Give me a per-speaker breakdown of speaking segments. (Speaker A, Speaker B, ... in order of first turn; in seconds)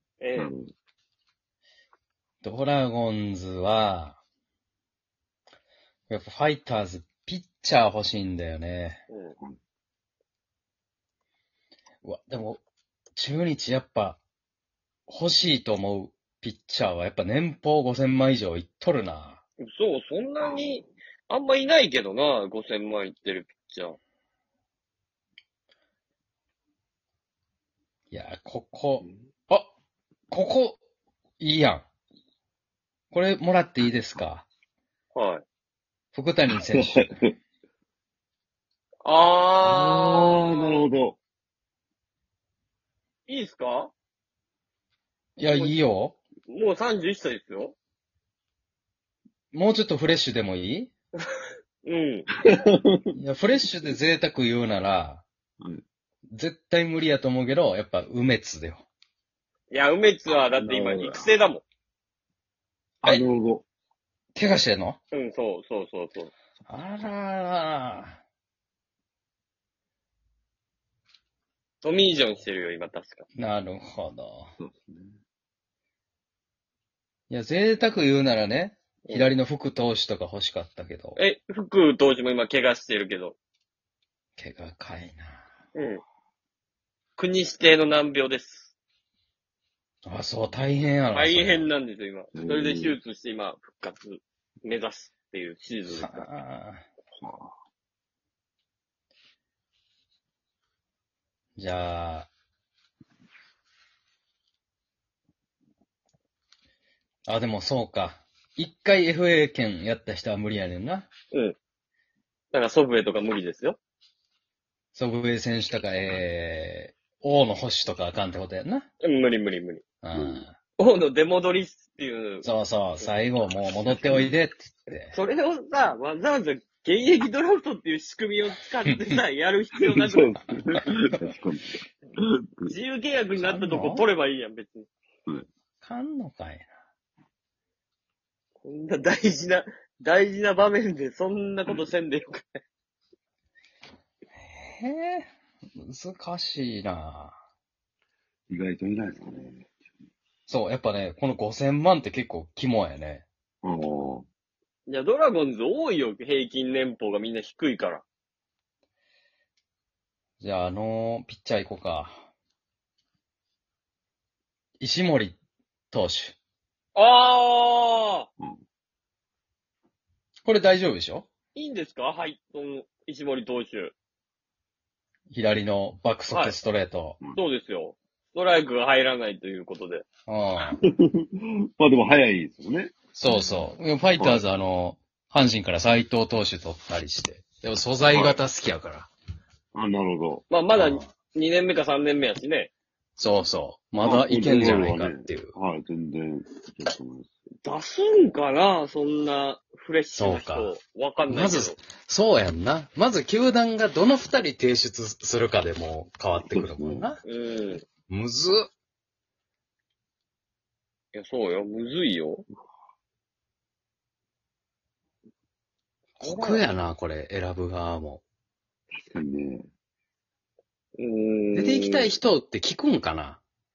Speaker A: 0.2-0.5, 9.1-9.4, 19.6-24.0, 35.1-35.4, 39.0-40.8, 43.3-43.9, 46.5-47.8, 51.8-52.3, 59.7-61.6, 65.1-66.3, 71.8-73.2, 79.1-79.3, 81.2-83.4, 85.8-86.0, 87.2-88.7, 91.1-96.3, 112.5-113.8, 119.0-119.8, 120.8-122.5, 125.1-130.4, 132.7-134.9, 138.6-142.6, 154.9-158.0, 166.9-168.3, 171.5-173.9, 176.3-176.6, 177.3-180.1, 190.5-192.7, 197.6-201.8, 207.2-207.8, 211.1-212.4, 216.2-216.6, 221.0-222.1
Speaker B: 0.4-0.7, 36.8-37.3, 39.6-41.2, 52.4-53.1, 60.3-61.3, 63.0-63.7, 74.6-75.2, 92.3-93.0, 97.2-97.5, 120.2-120.4, 123.9-124.3, 129.8-132.7, 148.5-149.7, 153.6-154.3, 181.8-183.0, 188.1-188.4, 189.7-190.4, 194.0-197.3, 206.5-207.1, 218.9-219.7
Speaker C: 2.4-4.2, 6.1-9.0, 12.0-12.6, 13.2-14.2, 15.1-19.4, 28.1-29.7, 30.3-30.8, 31.4-31.9, 33.1-34.5, 36.1-37.1, 45.4-46.2, 49.5-50.9, 53.1-55.2, 56.3-58.9, 64.3-65.0, 66.7-68.2, 73.4-74.5, 77.3-81.2, 84.4-85.4, 90.0-91.7, 95.9-96.8, 101.6-102.3, 107.3-111.1, 114.9-118.9, 120.0-120.5, 122.4-125.2, 128.9-129.2, 133.3-134.1, 135.8-136.7, 144.4-147.4, 150.5-153.3, 160.4-162.2, 164.8-165.4, 165.9-166.4, 170.4-171.3, 175.3-177.2, 180.3-180.8, 183.2-189.1, 190.8-191.1, 193.2-195.5, 200.2-200.8, 201.3-207.2, 208.1-208.7, 216.2-218.2, 221.5-223.4